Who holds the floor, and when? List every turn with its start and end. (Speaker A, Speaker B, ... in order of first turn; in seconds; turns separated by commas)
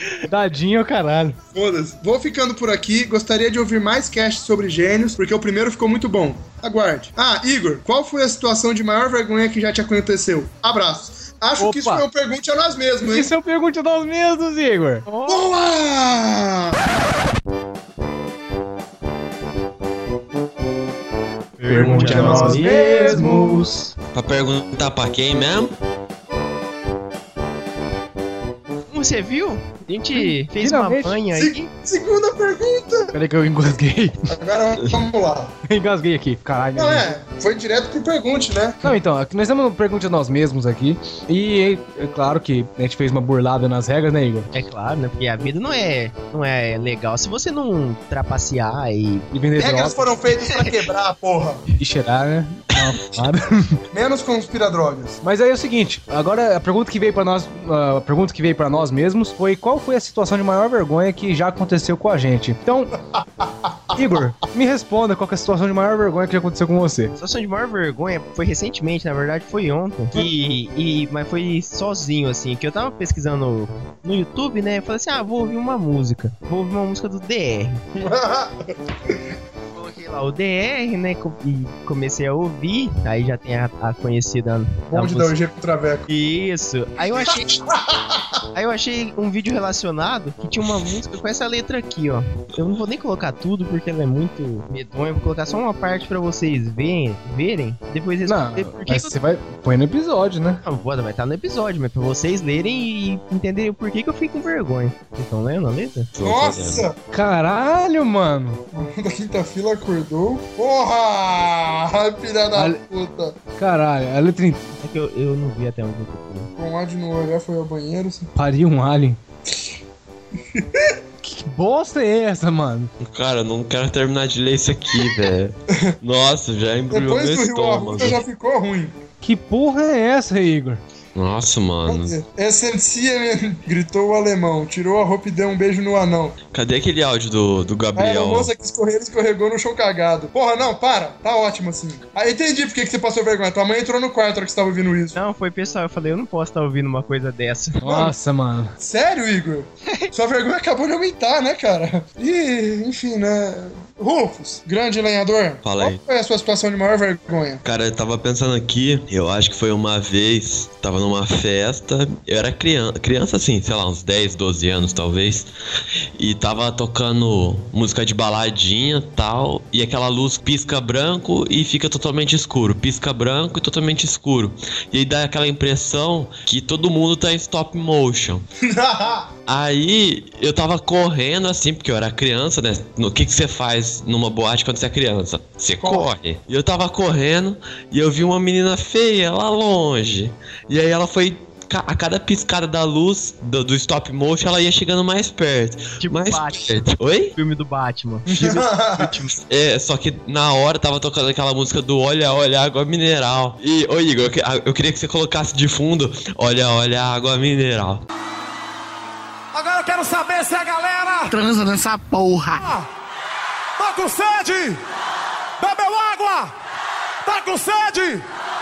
Speaker A: 0.2-1.4, Speaker B: 1.5-13.3, Speaker A: 11.6-12.1, Speaker A: 13.1-15.1, Speaker C: 15.1-15.4, Speaker B: 15.3-16.8, Speaker C: 21.6-23.9, Speaker A: 21.7-23.7, Speaker B: 21.7-22.7, Speaker D: 24.1-25.8, Speaker C: 28.9-31.7, Speaker A: 30.1-31.2, Speaker B: 31.3-33.1, Speaker A: 33.1-34.2, Speaker B: 34.3-35.5, Speaker A: 35.7-37.1, Speaker B: 36.8-38.9, Speaker A: 38.8-44.5, Speaker C: 44.5-49.3, Speaker A: 49.3-50.0, Speaker B: 49.6-51.6, Speaker C: 50.4-50.7, Speaker A: 51.8-53.8, Speaker B: 53.9-55.2, Speaker A: 55.2-62.9, Speaker B: 63.2-64.0, Speaker A: 64.0-67.2, Speaker C: 67.2-77.8, Speaker B: 78.0-78.8, Speaker C: 79.7-85.3, Speaker B: 84.9-86.1, Speaker C: 86.1-87.6, Speaker B: 87.0-88.4, Speaker C: 88.5-99.2, Speaker A: 98.3-100.6, Speaker C: 100.6-106.1, Speaker D: 106.2-106.9, Speaker B: 106.2-107.0, Speaker A: 107.1-108.6, Speaker B: 108.7-113.4, Speaker A: 112.5-112.8, Speaker A: 113.6-114.7, Speaker C: 114.8-116.5, Speaker B: 116.6-118.3, Speaker A: 118.3-119.2, Speaker B: 120.5-121.0, Speaker A: 121.2-122.9, Speaker D: 123.0-128.2, Speaker B: 126.9-128.9, Speaker A: 129.2-130.8, Speaker D: 131.2-132.2, Speaker B: 131.9-136.3, Speaker D: 136.5-138.5, Speaker B: 138.0-145.2, Speaker C: 145.1-147.8, Speaker A: 147.8-148.7, Speaker B: 147.8-148.1, Speaker B: 148.8-157.6, Speaker D: 155.6-156.0, Speaker D: 157.6-165.5, Speaker D: 166.2-178.4, Speaker B: 178.7-179.3, Speaker D: 179.5-197.4, Speaker B: 185.8-186.1, Speaker C: 196.0-196.8, Speaker C: 197.4-199.4, Speaker B: 198.3-199.2, Speaker D: 199.5-208.0, Speaker E: 209.6-212.9, Speaker E: 213.8-214.8, Speaker E: 215.6-216.5, Speaker E: 217.3-218.2